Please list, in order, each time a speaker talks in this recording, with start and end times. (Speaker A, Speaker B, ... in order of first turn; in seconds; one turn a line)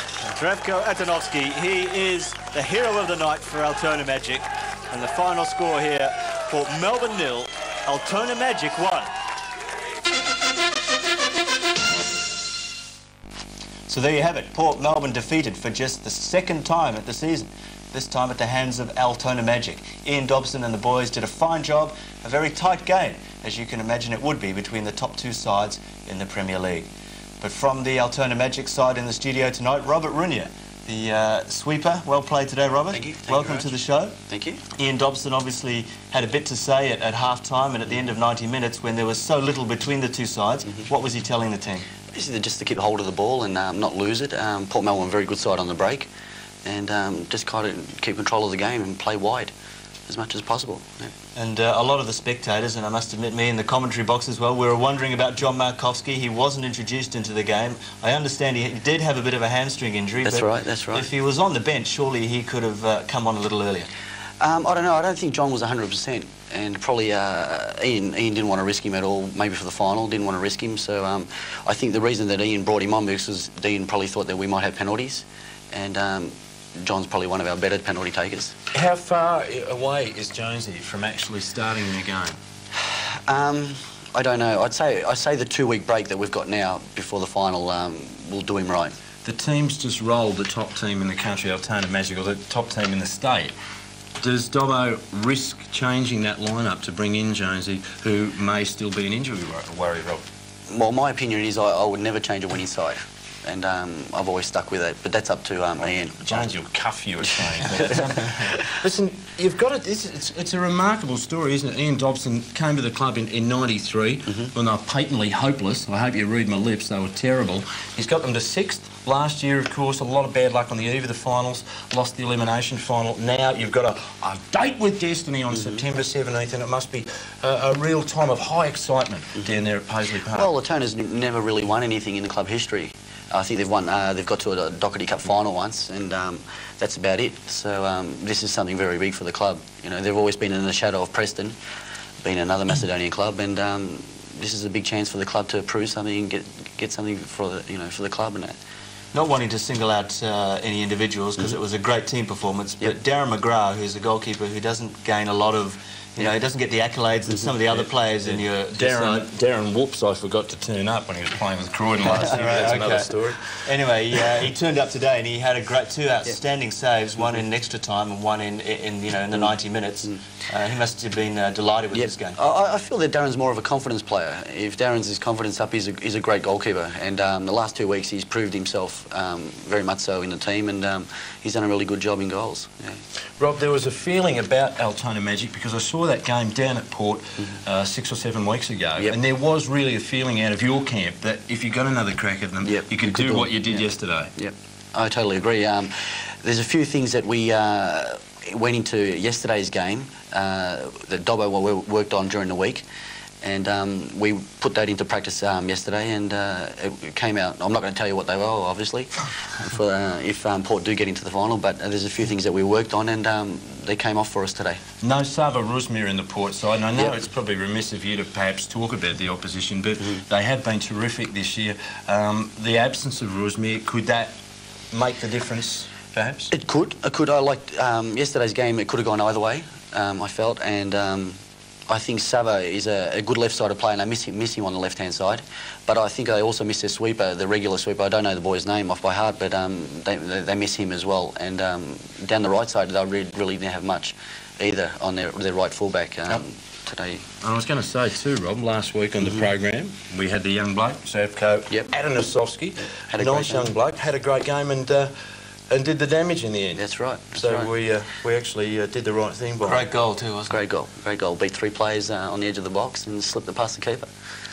Speaker A: 0.2-9.1
Speaker A: 13.9-26.9
Speaker A: 27.4-34.1
Speaker B: 32.9-33.7
Speaker B: 34.3-34.6
Speaker A: 34.8-41.9
Speaker B: 42.1-46.1
Speaker B: 46.6-49.5
Speaker B: 50.1-51.1
Speaker A: 51.4-63.9
Speaker B: 60.2-61.1
Speaker B: 64.4-78.5
Speaker C: 78.7-82.4
Speaker B: 82.8-89.0
Speaker C: 89.2-93.5
Speaker C: 94.2-100.2
Speaker B: 100.7-106.5
Speaker C: 106.2-130.5
Speaker B: 107.2-108.5
Speaker B: 114.3-114.5
Speaker B: 125.5-125.8
Speaker B: 130.3-141.6
Speaker B: 142.2-148.6
Speaker A: 149.1-159.3
Speaker C: 158.7-163.5
Speaker A: 162.0-172.4
Speaker B: 171.9-183.0
Speaker C: 183.4-194.3
Speaker B: 192.6-202.8
Speaker B: 203.4-214.8
Speaker C: 215.0-224.3
Speaker C: 224.9-226.5
Speaker B: 226.5-231.4
Speaker B: 231.9-247.3
Speaker C: 247.4-255.1
Speaker B: 249.2-249.5
Speaker B: 252.9-253.7
Speaker C: 255.7-256.8
Speaker B: 256.8-257.7
Speaker C: 257.3-259.8
Speaker A: 259.6-260.6
Speaker B: 260.5-264.1